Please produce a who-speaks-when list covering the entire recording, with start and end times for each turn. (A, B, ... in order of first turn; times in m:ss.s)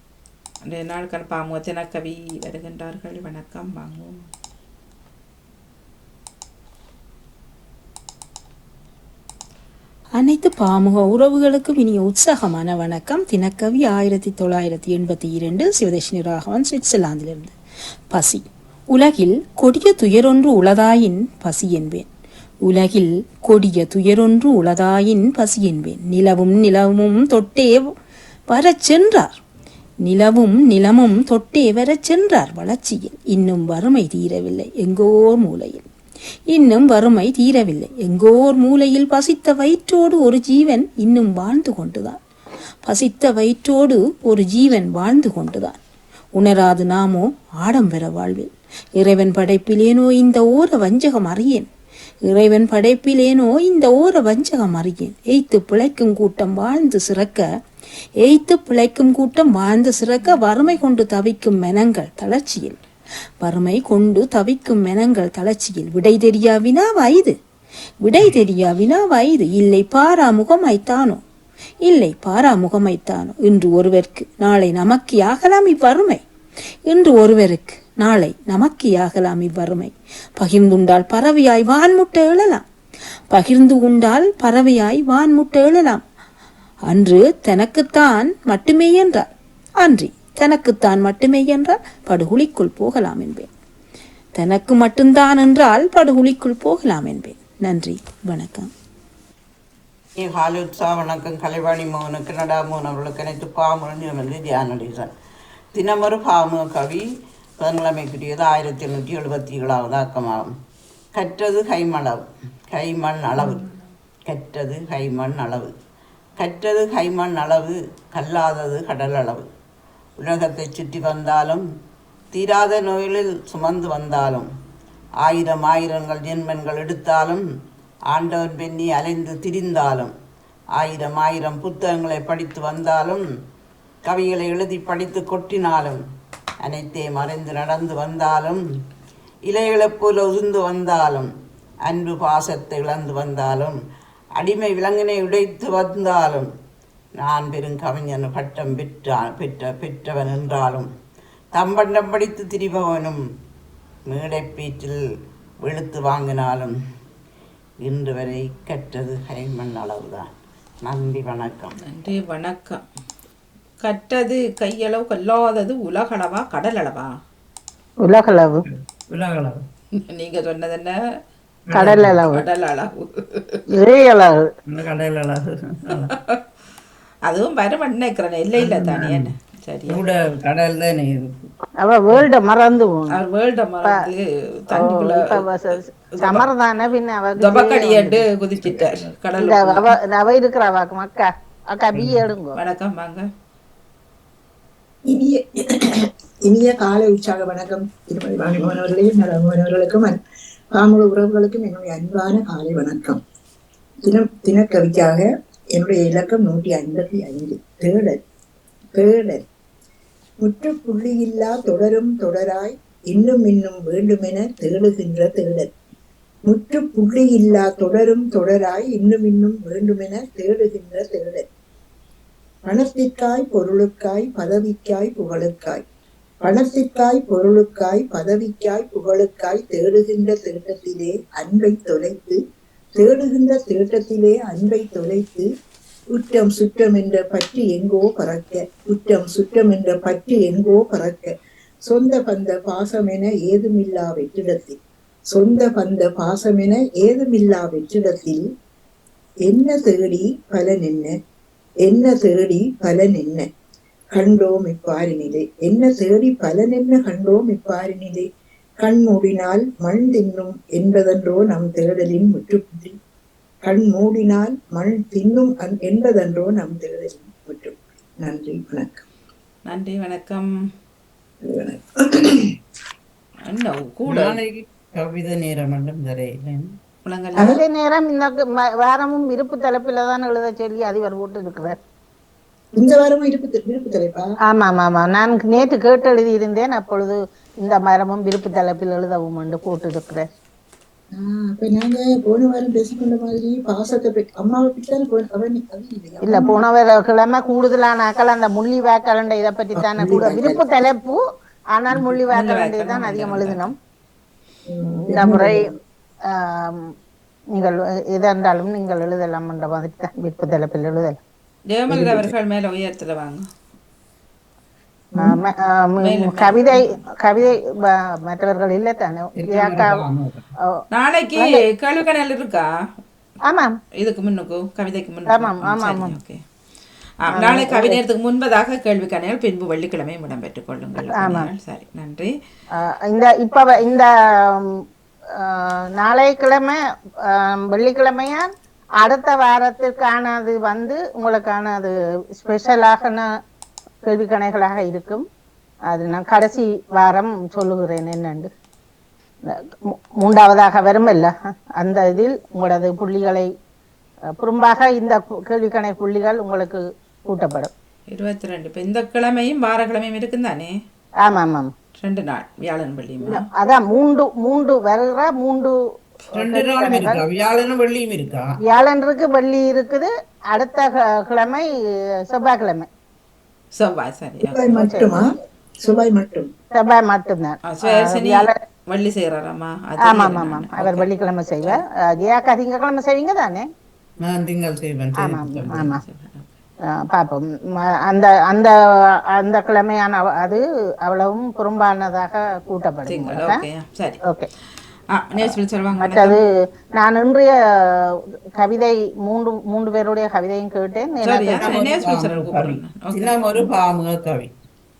0:00.7-0:04.2 A
0:10.2-0:17.5 B
0:18.1-0:22.1 B
0:22.7-0:27.9 B
0:28.5-0:29.4 B
0:30.0-0:35.8 B
0:36.5-0:42.2 B
0:42.8-0:45.8 B
0:46.4-0:51.7 B
0:52.3-0:57.4 B
0:58.2-1:02.8 B
1:03.4-1:07.4 B
1:08.0-1:11.2 B
1:11.9-1:16.2 B
1:16.9-1:22.6 B
1:23.3-1:26.0 B
1:26.9-1:29.3 B
1:29.8-1:33.5 B
1:34.4-1:38.7 B
1:40.2-1:45.1 C
1:45.7-1:47.0 C
1:47.6-1:50.5 C
1:51.2-1:53.6 C
1:54.3-1:55.7 C
1:56.4-1:59.4 C
2:00.2-2:01.6 C
2:02.3-2:04.5 C
2:05.2-2:07.4 C
2:08.1-2:10.1 C
2:10.8-2:13.2 C
2:14.0-2:16.0 C
2:16.6-2:18.6 C
2:19.5-2:21.3 C
2:21.9-2:23.8 C
2:24.4-2:26.5 C
2:27.2-2:30.9 C
2:31.6-2:33.2 C
2:34.1-2:35.0 C
2:35.6-2:36.7 C
2:37.8-2:40.3 C
2:40.8-2:41.8 C
2:41.8-2:42.8 A
2:43.8-2:47.2 A
2:48.0-2:48.7 D
2:49.1-2:49.6 E
2:50.1-2:51.0 A
2:51.7-2:52.5 D
2:51.7-2:52.2 E
2:52.3-2:53.0 A
2:53.8-2:54.5 D
2:54.7-2:56.1 E
2:57.3-3:00.0 A
2:58.6-2:59.3 E
2:59.9-3:01.4 E
3:01.8-3:03.2 D
3:03.1-3:05.4 A
3:04.8-3:08.3 D
3:06.2-3:06.4 A
3:07.4-3:09.8 A
3:08.6-3:09.0 E
3:09.4-3:12.6 D
3:12.6-3:13.3 A
3:15.1-3:15.4 F
3:16.0-3:20.2 F
3:20.7-3:23.2 F
3:24.1-3:25.2 F
3:25.8-3:28.2 F
3:29.0-3:29.4 F
3:30.4-3:35.7 F
3:36.5-3:41.4 F
3:42.7-3:45.8 F
3:46.4-3:52.4 F
3:53.0-3:55.5 F
3:56.1-4:01.3 F
4:01.9-4:04.8 F
4:05.3-4:08.4 F
4:09.5-4:11.1 F
4:11.9-4:13.5 F
4:14.1-4:18.2 F
4:18.8-4:23.0 F
4:23.6-4:29.0 F
4:29.7-4:30.5 A
4:31.5-4:32.5 F
4:33.5-4:34.4 A
4:34.1-4:36.6 E
4:37.1-4:37.6 A
4:37.4-4:41.8 D
4:42.8-4:44.2 F
4:44.5-4:50.2 D
4:51.2-4:56.6 F
4:56.2-5:01.2 D
4:59.8-5:00.6 F
5:01.8-5:03.7 D
5:01.9-5:02.2 F
5:02.3-5:03.7 A
5:04.7-5:05.5 F
5:05.0-5:05.7 D
5:06.3-5:06.9 D
5:07.6-5:11.2 D
5:11.7-5:13.4 A
5:11.9-5:12.3 F
5:15.2-5:20.1 D
5:16.0-5:17.0 A
5:19.4-5:20.4 E
5:20.9-5:22.6 A
5:23.4-5:23.7 D
5:24.0-5:26.4 A
5:25.3-5:26.2 D
5:27.3-5:32.3 A
5:27.3-5:28.0 D
5:31.0-5:31.5 D
5:32.8-5:34.7 D
5:35.4-5:36.8 D
5:37.3-5:38.5 D
5:39.0-5:43.2 D
5:44.0-5:45.2 D
5:45.9-5:48.5 D
5:50.2-5:53.5 D
5:54.4-5:57.7 D
5:58.1-6:00.7 A
6:01.2-6:01.7 D
6:02.0-6:03.4 A
6:03.2-6:05.7 D
6:06.3-6:07.2 D
6:06.4-6:08.5 E
6:08.7-6:11.7 D
6:12.3-6:12.9 D
6:13.8-6:14.7 A
6:14.4-6:15.2 F
6:14.7-6:15.2 D
6:15.8-6:16.5 F
6:16.7-6:18.6 D
6:17.7-6:21.1 A
6:20.0-6:23.7 D
6:24.2-6:25.9 E
6:25.1-6:26.0 D
6:25.9-6:26.4 A
6:27.1-6:27.5 D
6:28.0-6:28.7 D
6:29.4-6:33.6 D
6:33.1-6:34.2 A
6:35.2-6:36.4 A
6:35.4-6:36.5 D
6:37.0-6:37.5 D
6:38.6-6:41.8 D
6:41.2-6:43.7 A
6:41.6-6:44.5 E